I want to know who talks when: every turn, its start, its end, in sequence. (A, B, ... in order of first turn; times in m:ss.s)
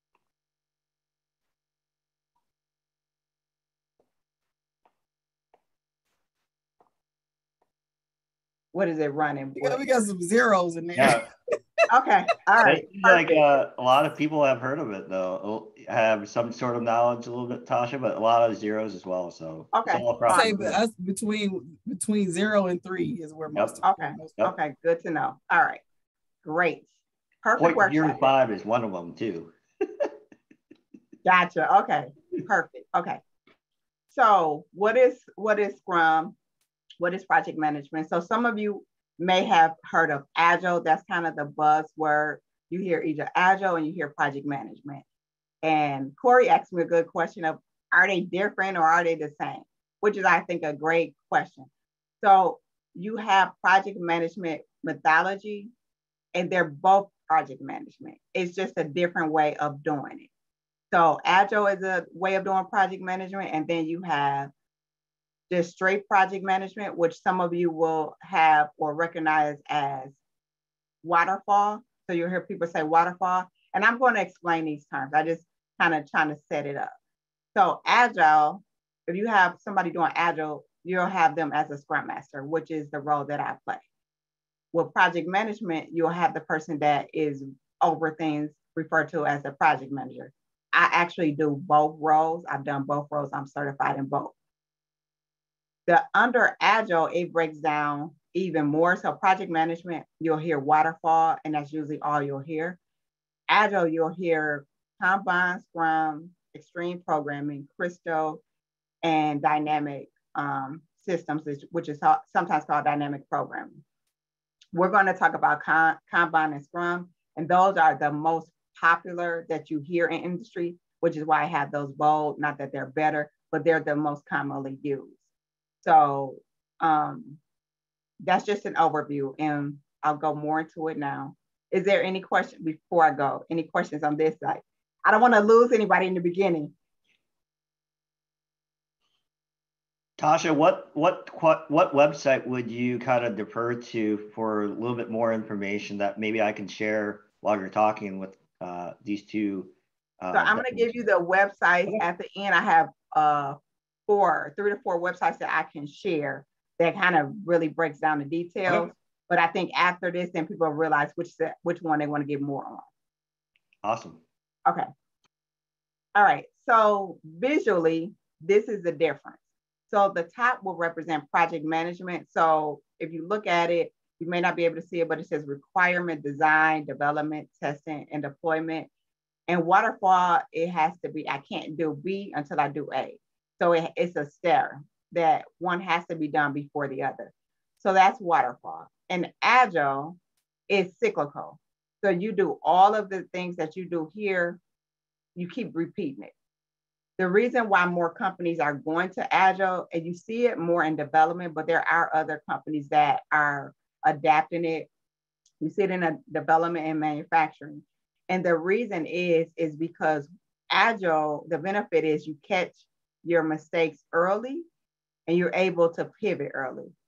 0:08.7-0:09.8 A
0:09.6-0:11.3 B
0:11.0-0:11.2 C
0:11.9-0:13.4 A
0:12.6-0:20.8 C
0:19.7-0:20.8 A
0:20.3-0:24.4 B
0:23.8-0:25.8 A
0:26.4-0:26.9 A
0:27.4-0:28.3 A
0:27.6-0:29.5 C
0:31.2-0:33.2 A
0:34.1-0:36.4 A
0:37.0-0:45.0 A
0:45.6-0:51.7 A
0:52.2-0:55.7 A
0:56.4-1:00.3 A
1:00.9-1:04.5 A
1:05.5-1:10.2 A
1:11.0-1:16.9 A
1:17.6-1:23.8 A
1:24.7-1:34.3 A
1:35.9-1:42.8 A
1:43.5-1:48.4 A
1:49.0-1:53.8 A
1:54.7-2:05.2 A
2:05.8-2:07.4 A
2:08.2-2:16.7 A
2:20.2-2:30.9 C
2:30.3-2:42.9 A
2:43.8-2:44.2 C
2:46.2-2:58.9 A
2:59.5-3:10.2 A
3:10.7-3:14.6 A
3:15.4-3:16.3 A
3:17.2-3:24.9 A
3:25.6-3:34.6 A
3:35.3-3:36.9 A